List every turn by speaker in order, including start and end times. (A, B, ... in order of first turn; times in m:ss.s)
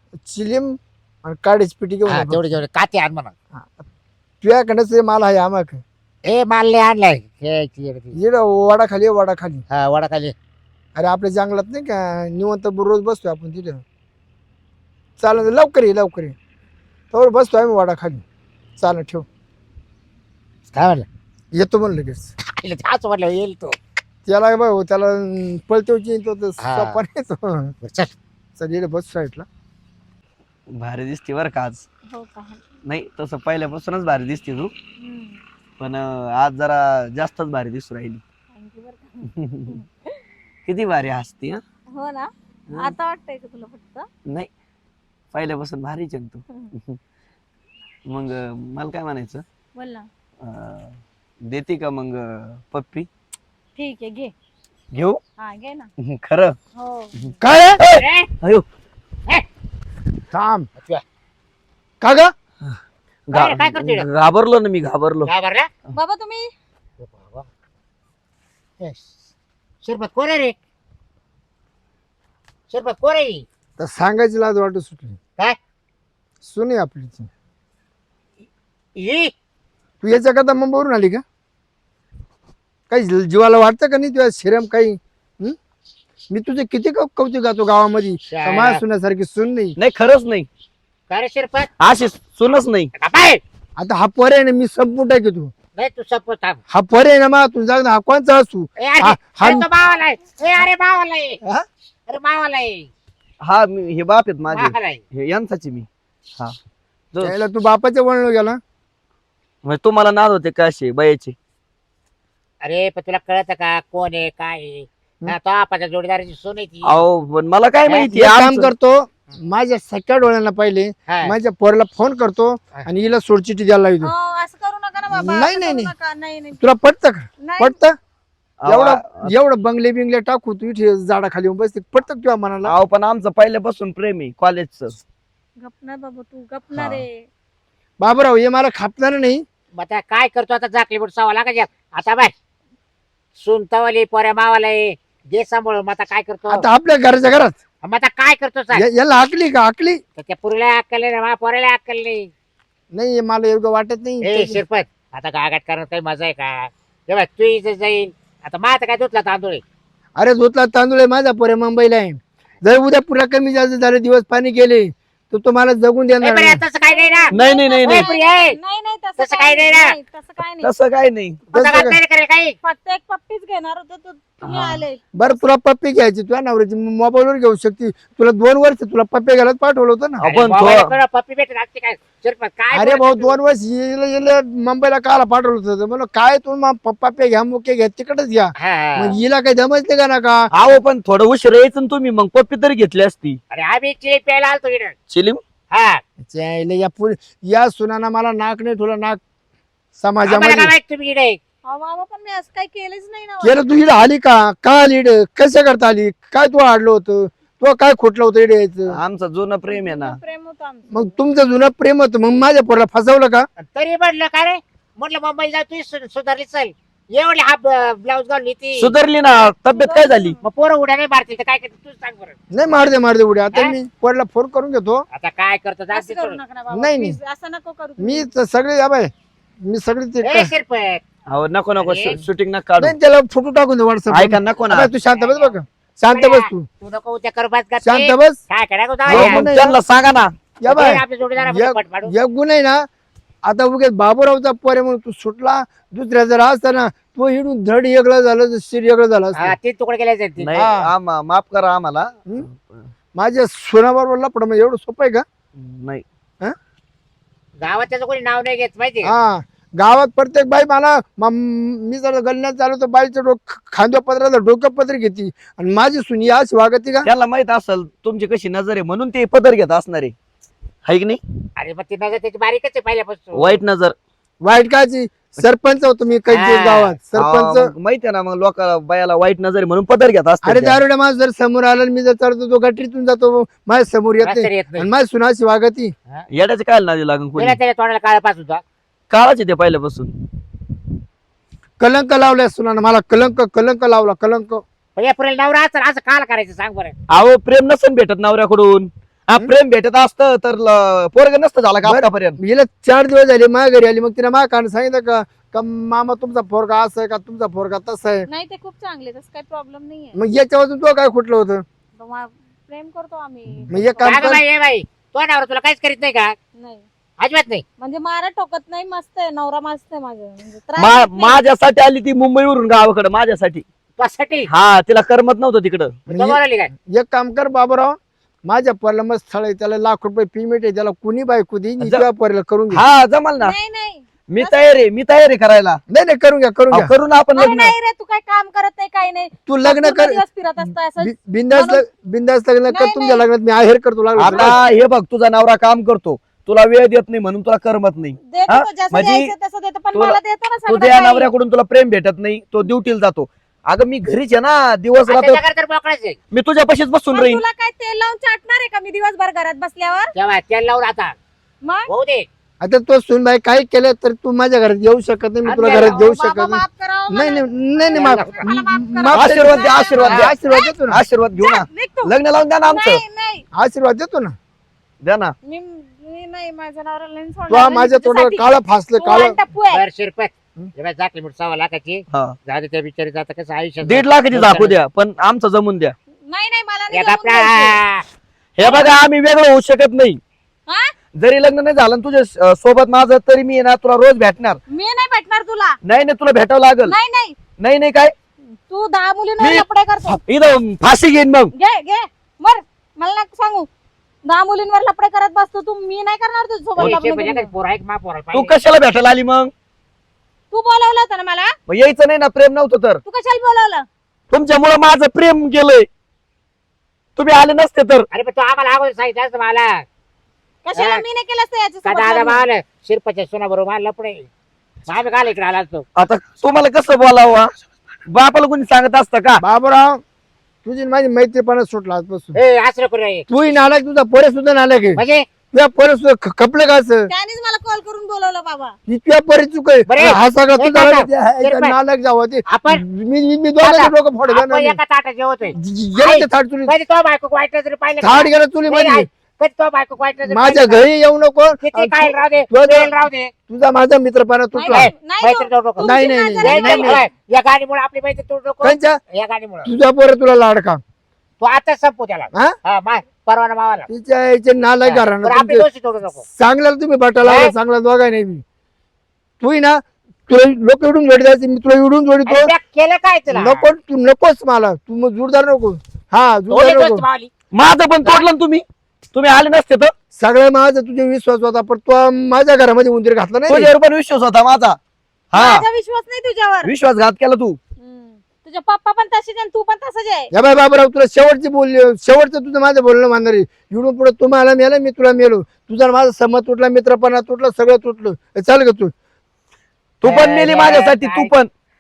0:00.2-0:02.6 A
0:02.1-0:03.3 B
0:03.5-0:03.8 A
0:04.4-0:05.8 A
0:06.2-0:08.2 B
0:08.1-0:09.6 A
0:09.7-0:10.4 B
0:11.0-0:13.8 A
0:15.2-0:16.4 A
0:17.1-0:18.2 A
0:18.8-0:19.2 A
0:20.7-0:21.1 B
0:21.5-0:22.3 A
0:22.6-0:23.8 B
0:24.2-0:27.8 A
0:26.6-0:27.0 B
0:27.8-0:28.1 B
0:28.6-0:29.5 A
0:30.7-0:31.9 C
0:32.1-0:32.6 D
0:32.8-0:34.7 C
0:35.0-0:35.4 D
0:35.8-0:38.2 C
0:38.5-0:39.9 D
0:39.3-0:39.7 C
0:40.7-0:41.6 C
0:41.9-0:44.1 D
0:45.3-0:47.0 C
0:48.1-0:49.4 C
0:49.8-0:50.1 D
0:50.4-0:53.1 C
0:53.8-0:54.3 D
0:54.9-0:55.2 C
0:55.4-0:55.9 D
0:56.0-0:56.6 C
0:56.8-0:57.3 D
0:57.4-0:57.8 A
0:57.8-0:58.6 C
0:58.0-0:58.3 B
1:00.3-1:00.7 A
1:00.8-1:01.0 B
1:02.0-1:02.3 A
1:03.3-1:05.3 C
1:03.3-1:04.1 B
1:05.2-1:05.7 B
1:05.9-1:06.5 D
1:07.0-1:07.5 B
1:08.8-1:09.1 B
1:09.8-1:10.5 B
1:12.7-1:13.4 B
1:13.8-1:15.2 A
1:16.4-1:17.3 A
1:19.0-1:19.3 B
1:20.0-1:21.2 A
1:22.9-1:25.6 A
1:26.3-1:29.8 A
1:28.3-1:28.8 B
1:29.8-1:30.5 C
1:31.1-1:31.7 B
1:31.8-1:32.9 C
1:33.0-1:33.4 B
1:33.8-1:35.5 A
1:35.8-1:36.6 B
1:36.7-1:39.6 A
1:38.8-1:41.4 B
1:42.1-1:42.9 B
1:43.4-1:46.6 C
1:44.5-1:45.0 B
1:47.1-1:47.4 C
1:47.2-1:48.6 A
1:49.6-1:51.4 C
1:52.6-1:57.0 B
1:56.8-1:58.7 C
1:58.1-2:04.1 A
2:01.1-2:01.4 B
2:04.0-2:06.6 D
2:05.1-2:05.9 A
2:06.6-2:08.0 A
2:07.4-2:07.8 D
2:08.6-2:09.3 C
2:08.6-2:12.7 A
2:12.6-2:15.0 C
2:15.6-2:17.3 D
2:16.8-2:17.0 C
2:18.0-2:19.4 A
2:19.7-2:22.3 B
2:23.4-2:26.6 B
2:26.5-2:27.6 A
2:27.8-2:28.8 B
2:28.7-2:30.0 A
2:30.2-2:32.3 B
2:32.9-2:34.6 A
2:34.2-2:39.6 B
2:40.2-2:46.6 A
2:46.2-2:47.3 B
2:46.8-2:50.7 D
2:47.3-2:48.1 C
2:47.8-2:48.6 B
2:49.2-2:50.0 B
2:50.6-2:51.4 C
2:51.5-2:52.6 B
2:51.5-2:52.0 A
2:52.6-2:55.4 D
2:54.4-2:54.8 C
2:55.1-3:00.3 A
3:00.2-3:03.4 B
3:00.3-3:00.9 C
3:02.7-3:10.5 A
3:08.6-3:09.2 B
3:10.5-3:13.4 C
3:13.5-3:15.0 B
3:15.1-3:15.4 C
3:15.7-3:16.0 B
3:16.2-3:19.2 A
3:20.0-3:20.7 A
3:20.2-3:21.4 B
3:21.6-3:23.7 D
3:23.4-3:29.0 A
3:28.9-3:30.2 C
3:29.7-3:31.2 D
3:30.9-3:33.5 A
3:33.6-3:38.9 B
3:38.8-3:40.4 C
3:39.7-3:40.4 D
3:40.4-3:42.4 B
3:42.5-3:45.0 A
3:45.1-3:46.4 B
3:45.9-3:48.3 D
3:46.7-3:47.2 A
3:48.0-3:49.1 A
3:49.6-3:50.5 A
3:50.2-3:51.0 B
3:51.3-3:53.0 C
3:51.8-3:52.2 B
3:52.8-3:56.7 A
3:54.1-3:54.9 C
3:55.1-3:55.6 B
3:56.1-3:59.5 B
3:57.8-3:58.4 A
3:59.1-3:59.8 A
3:59.1-4:00.3 C
4:00.6-4:02.8 A
4:00.6-4:02.1 B
4:03.4-4:09.5 A
4:09.4-4:10.6 B
4:10.4-4:12.9 C
4:10.5-4:10.9 A
4:13.1-4:15.2 A
4:15.6-4:16.0 C
4:17.6-4:19.1 B
4:19.0-4:27.1 A
4:27.0-4:30.1 C
4:30.8-4:31.2 C
4:31.6-4:33.6 B
4:33.4-4:34.0 C
4:34.4-4:37.7 A
4:36.3-4:37.0 B
4:37.1-4:40.8 C
4:40.4-4:45.9 A
4:44.2-4:44.9 B
4:46.3-4:47.6 C
4:47.4-4:48.6 B
4:49.1-4:50.1 C
4:51.8-4:54.6 A
4:55.0-4:57.0 B
4:57.1-5:02.4 C
5:01.8-5:08.3 A
5:08.3-5:10.2 D
5:10.1-5:11.6 A
5:12.0-5:14.4 D
5:13.7-5:14.4 A
5:14.0-5:16.4 B
5:16.6-5:16.8 D
5:17.2-5:17.6 B
5:17.8-5:21.4 D
5:20.8-5:23.6 C
5:24.0-5:24.5 B
5:24.5-5:26.0 C
5:26.1-5:32.8 A
5:26.1-5:26.7 B
5:31.8-5:32.1 C
5:32.7-5:33.6 C
5:33.4-5:34.6 D
5:34.3-5:35.8 C
5:35.9-5:36.9 A
5:36.7-5:37.7 C
5:37.4-5:41.8 D
5:39.5-5:40.2 A
5:41.0-5:44.6 A
5:42.7-5:43.2 D
5:44.2-5:49.3 C
5:48.3-5:51.3 D
5:49.9-5:55.4 C
5:55.1-5:56.2 B
5:56.3-5:57.4 C
5:57.1-6:00.1 D
6:00.1-6:01.2 B
6:01.6-6:01.9 D
6:01.9-6:02.3 B
6:02.6-6:11.0 A
6:05.4-6:06.0 B
6:05.7-6:10.7 D
6:07.9-6:08.5 B
6:09.1-6:10.4 C
6:10.9-6:13.0 C
6:11.4-6:12.1 D
6:12.7-6:13.4 D
6:13.5-6:14.4 A
6:15.0-6:15.4 C
6:15.4-6:19.8 D
6:17.5-6:19.4 A
6:19.7-6:24.8 B
6:23.8-6:26.0 C
6:26.2-6:27.8 D
6:26.9-6:28.0 B
6:28.6-6:30.2 C
6:28.6-6:28.9 D
6:31.2-6:34.6 C
6:34.7-6:35.8 D
6:35.8-6:37.0 C
6:36.9-6:37.4 D
6:37.6-6:38.1 C
6:38.6-6:40.2 D
6:39.4-6:41.5 C
6:41.5-6:43.7 D
6:44.2-6:47.5 D
6:46.8-6:48.6 B
6:48.3-6:49.5 C
6:50.5-6:51.5 D
6:51.7-6:53.0 C
6:53.0-6:53.8 D
6:54.3-6:55.9 C
6:57.2-6:58.1 C
6:58.1-6:59.8 B
7:00.6-7:02.4 D
7:00.8-7:01.0 B
7:01.8-7:04.3 B
7:04.9-7:05.8 B
7:06.0-7:07.5 C
7:08.1-7:09.4 C
7:09.4-7:10.0 A
7:10.6-7:12.4 A
7:12.4-7:13.3 B
7:13.3-7:15.0 A
7:15.0-7:15.2 B
7:15.5-7:17.1 A
7:17.1-7:18.8 D
7:18.9-7:24.8 A
7:19.9-7:21.8 B
7:22.5-7:22.8 B
7:23.6-7:30.8 B
7:25.6-7:26.7 A
7:28.0-7:29.1 A
7:30.3-7:32.9 A
7:31.6-7:33.3 B
7:33.5-7:34.9 A
7:34.5-7:37.0 D
7:34.7-7:39.7 B
7:35.8-7:37.0 A
7:38.6-7:39.0 A
7:39.6-7:40.8 A
7:41.4-7:43.9 B
7:43.9-7:45.6 A
7:44.8-7:46.3 B
7:46.3-7:48.4 A
7:47.2-7:47.5 B
7:49.4-7:52.5 A
7:52.3-7:53.6 B
7:53.3-7:57.0 A
7:56.5-7:57.3 B
7:57.5-7:59.9 C
8:00.2-8:03.7 A
8:03.5-8:04.8 C
8:05.3-8:05.6 C
8:05.4-8:06.7 D
8:06.6-8:07.6 C
8:07.8-8:10.3 D
8:10.3-8:18.9 A
8:20.0-8:21.5 C
8:20.0-8:21.3 B